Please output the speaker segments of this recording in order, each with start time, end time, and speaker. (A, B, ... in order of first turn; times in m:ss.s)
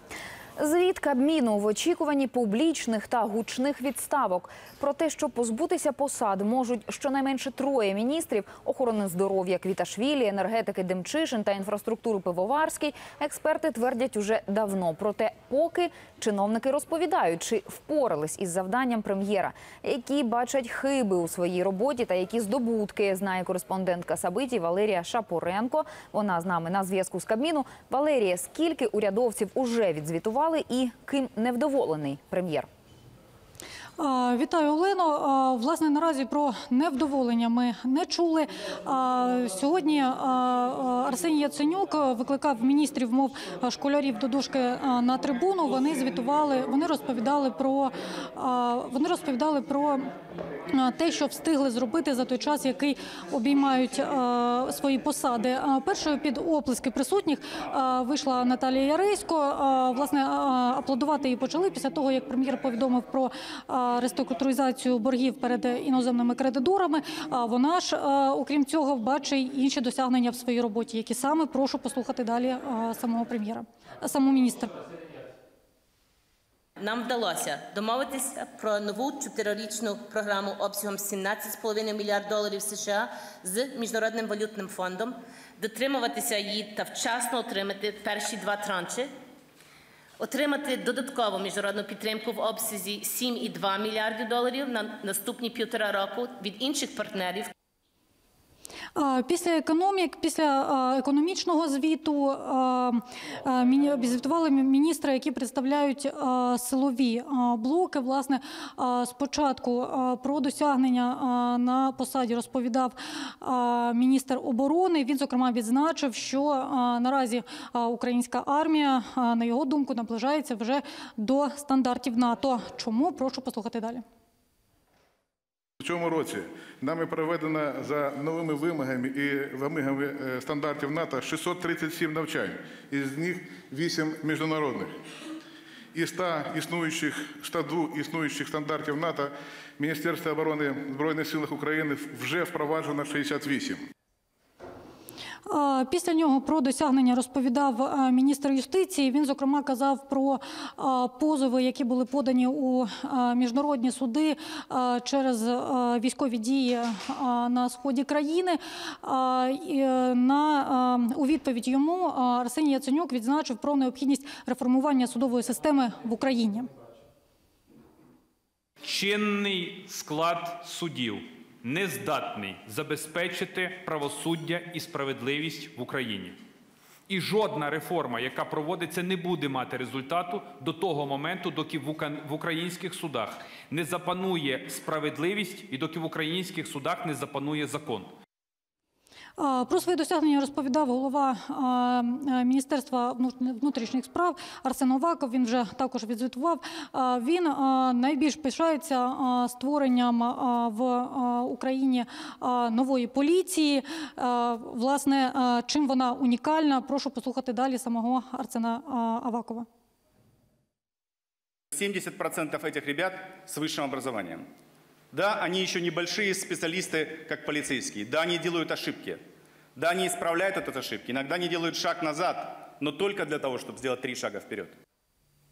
0:00.6-0:32.7 A
0:34.0-0:50.1 B
0:50.7-1:14.8 B
1:16.8-1:29.1 C
1:30.2-1:37.5 C
1:39.0-2:04.0 B
2:05.8-2:14.9 D
2:15.9-2:23.8 D
2:25.4-2:46.7 B
2:48.8-2:56.4 E
2:57.1-3:08.1 E
3:09.4-3:29.7 B
3:31.7-3:34.5 F
3:35.1-3:39.2 F
3:39.8-3:44.8 F